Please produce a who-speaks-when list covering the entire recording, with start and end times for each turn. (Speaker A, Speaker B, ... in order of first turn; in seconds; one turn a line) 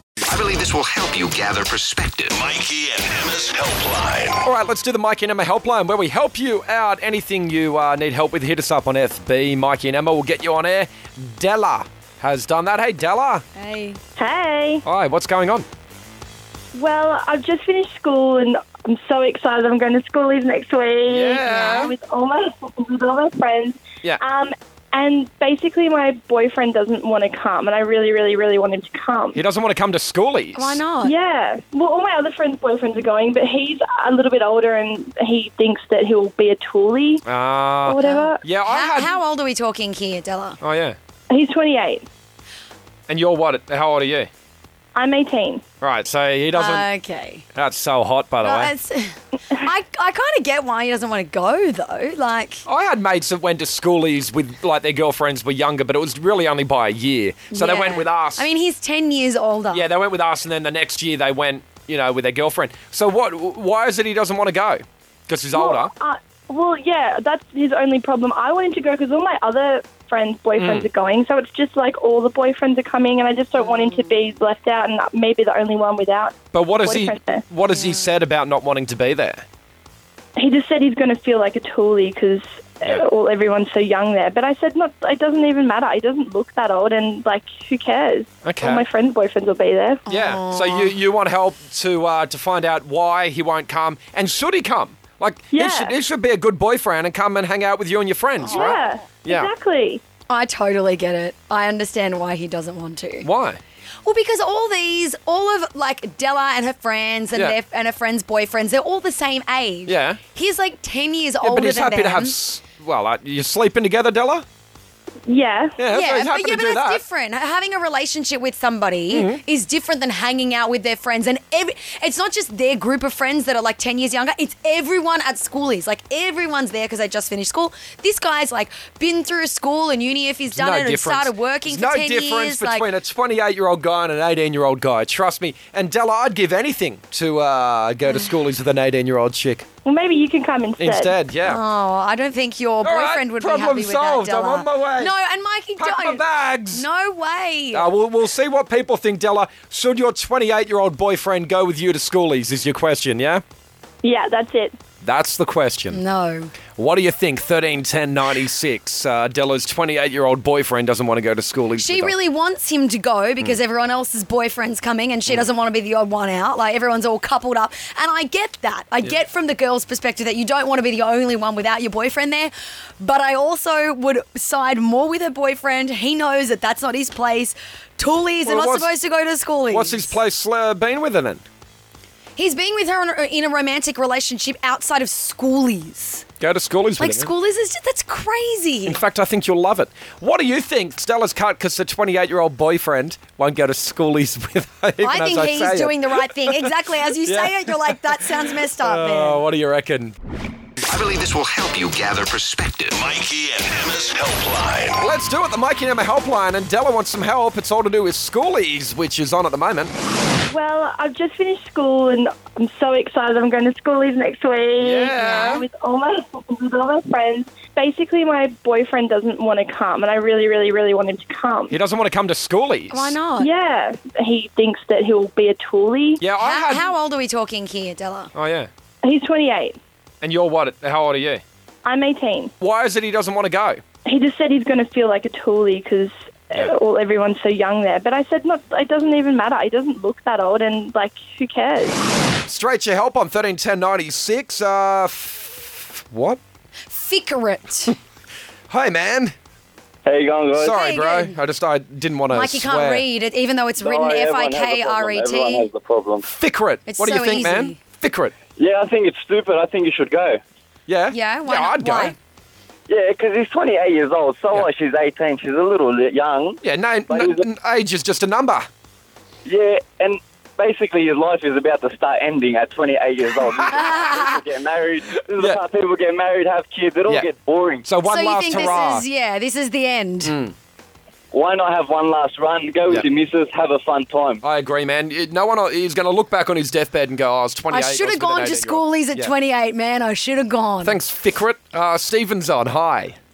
Speaker A: 0.2-4.4
Speaker B: 4.4-13.4
Speaker C: 13.6-14.0
Speaker D: 14.2-14.8
Speaker B: 14.8-15.7
Speaker D: 16.7-29.4
Speaker B: 21.1-21.9
Speaker B: 29.3-30.8
Speaker C: 30.5-31.1
Speaker D: 31.0-37.2
Speaker B: 37.2-39.2
Speaker D: 37.9-38.4
Speaker C: 38.0-40.6
Speaker B: 40.6-41.0
Speaker D: 41.3-42.0
Speaker B: 43.1-44.3
Speaker D: 45.0-45.6
Speaker B: 45.8-46.9
Speaker C: 46.5-47.4
Speaker B: 47.5-48.7
Speaker C: 48.4-52.6
Speaker B: 52.6-58.5
Speaker C: 57.5-59.9
Speaker B: 59.7-65.9
Speaker D: 65.5-77.4
Speaker B: 70.6-70.9
Speaker C: 73.7-74.0
Speaker B: 76.5-79.4
Speaker C: 77.7-78.0
Speaker D: 80.4-90.0
Speaker B: 88.4-88.8
Speaker C: 90.1-90.9
Speaker B: 90.1-99.5
Speaker D: 95.5-95.9
Speaker D: 98.5-100.0
Speaker C: 100.3-103.3
Speaker B: 103.2-103.6
Speaker C: 104.0-112.3
Speaker B: 109.8-110.2
Speaker B: 111.4-114.4
Speaker D: 115.3-115.8
Speaker B: 115.8-117.0
Speaker C: 115.9-132.9
Speaker B: 119.1-119.4
Speaker B: 130.5-139.7
Speaker D: 139.8-141.1
Speaker B: 140.8-141.6
Speaker C: 141.4-147.9
Speaker B: 142.8-145.1
Speaker B: 145.8-146.8
Speaker B: 147.7-153.4
Speaker D: 154.0-154.7
Speaker B: 155.0-156.0
Speaker C: 155.9-156.5
Speaker B: 156.8-162.1
Speaker C: 161.8-180.2
Speaker B: 178.4-178.9
Speaker B: 179.7-181.4
Speaker C: 182.4-186.2
Speaker B: 186.4-187.3
Speaker C: 187.0-189.0
Speaker B: 188.8-200.2
Speaker C: 195.0-199.4
Speaker A: 200.9-205.1
Speaker B: 205.0-209.9
Speaker D: 210.5-221.7
Speaker B: 214.8-215.6
Speaker B: 221.7-223.2
Speaker C: 222.9-223.5
Speaker D: 223.4-226.2
Speaker B: 226.2-226.9
Speaker C: 226.4-228.3
Speaker B: 228.3-228.7
Speaker D: 229.0-229.8
Speaker B: 230.2-231.4
Speaker D: 231.8-232.5
Speaker B: 232.6-233.8
Speaker D: 234.1-242.0
Speaker B: 242.4-246.4
Speaker C: 246.9-247.9
Speaker B: 248.7-249.3
Speaker E: 250.1-250.8
Speaker B: 250.6-253.0
Speaker C: 250.6-251.3
Speaker C: 252.3-255.7
Speaker E: 253.8-256.2
Speaker B: 256.2-258.3
Speaker C: 256.9-257.8
Speaker E: 258.6-260.4
Speaker B: 260.9-262.1
Speaker C: 261.1-262.1
Speaker E: 262.9-267.4
Speaker B: 266.6-268.7
Speaker E: 269.4-277.9
Speaker C: 273.7-274.0
Speaker B: 273.9-274.2
Speaker B: 277.8-279.1
Speaker C: 278.0-280.4
Speaker B: 280.2-280.5
Speaker E: 281.3-284.4
Speaker B: 284.4-289.3
Speaker C: 287.7-291.0
Speaker B: 290.8-293.2